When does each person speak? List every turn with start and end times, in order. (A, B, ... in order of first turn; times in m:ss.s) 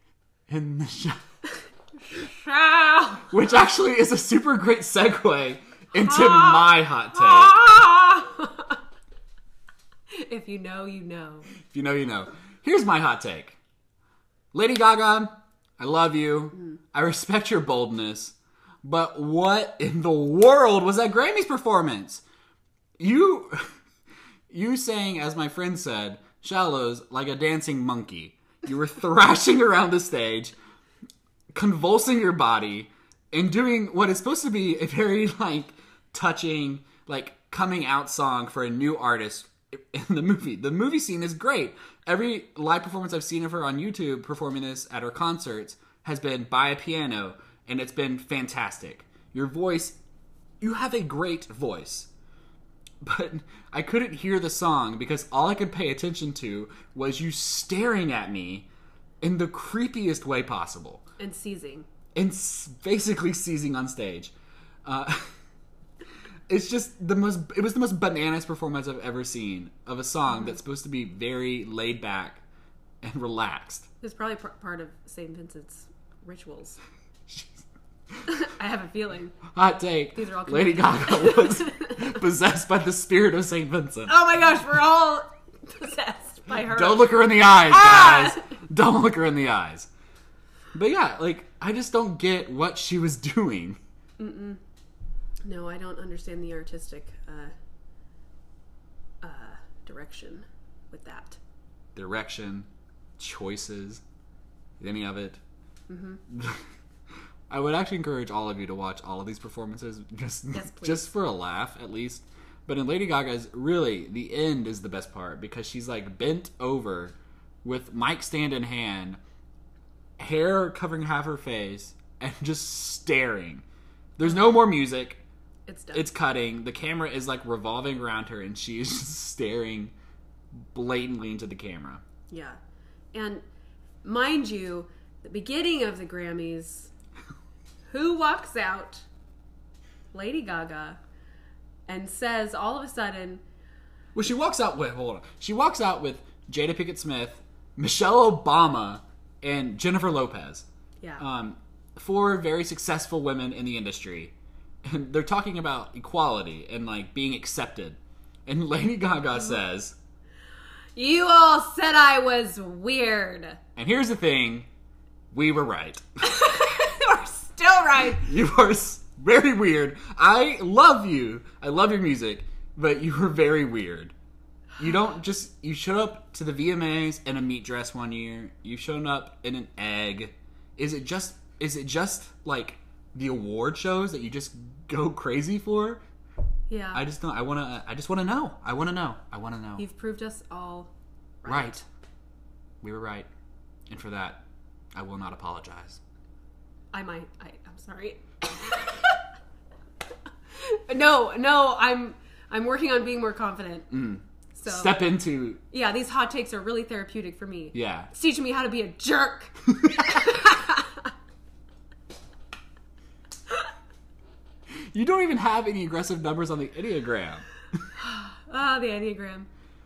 0:00.5-0:01.2 A
0:02.1-0:03.3 B
0:03.3-0:07.6 A
0:06.0-0:08.8 B
0:10.1-0:11.5 B
0:11.6-0:13.6 A
0:14.5-0:22.2 A
0:23.0-0:23.7 A
0:24.5-0:30.5 A
0:31.5-0:50.0 A
0:50.6-0:52.1 A
0:53.0-0:58.7 A
0:59.2-1:01.0 A
1:01.2-1:01.9 B
1:02.1-1:04.3 A
1:04.8-1:05.3 A
1:06.5-1:12.4 A
1:13.0-1:13.9 A
1:14.0-1:16.8 B
1:17.3-1:17.6 A
1:18.3-1:19.4 B
1:19.5-1:24.2 A
1:20.1-1:22.2 B
1:24.1-1:28.5 B
1:26.5-1:29.9 A
1:30.7-1:33.8 A
1:34.2-1:34.6 B
1:35.4-1:37.5 B
1:39.2-1:41.4 B
1:42.0-1:44.0 A
1:44.8-1:45.4 A
1:45.9-1:46.2 B
1:46.3-1:46.6 A
1:47.5-1:59.2 A
1:50.5-1:51.1 B
2:00.2-2:03.6 A
2:04.2-2:05.2 A
2:05.7-2:06.1 B
2:05.9-2:09.9 A
2:10.5-2:12.0 A
2:12.3-2:12.6 B
2:13.1-2:13.4 B
2:14.0-2:16.9 B
2:17.9-2:19.0 B
2:20.1-2:21.0 B
2:21.9-2:23.4 B
2:24.1-2:30.7 A
2:31.2-2:40.0 A
2:41.0-2:43.6 B
2:43.8-2:44.7 A
2:45.3-2:46.0 A
2:46.2-2:48.3 B
2:48.2-2:54.1 A
2:54.8-3:06.0 A
3:06.7-3:07.0 B
3:06.9-3:09.8 A
3:09.8-3:10.9 B
3:11.4-3:11.8 B
3:11.4-3:11.8 A
3:12.8-3:13.3 A
3:13.9-3:14.4 A
3:14.9-3:16.0 A
3:16.9-3:19.2 B
3:20.5-3:23.9 B
3:23.9-3:25.6 A
3:24.5-3:25.0 B
3:25.7-3:31.1 B
3:27.7-3:28.1 A
3:29.7-3:30.2 A
3:34.7-3:37.5 A
3:37.9-3:39.5 B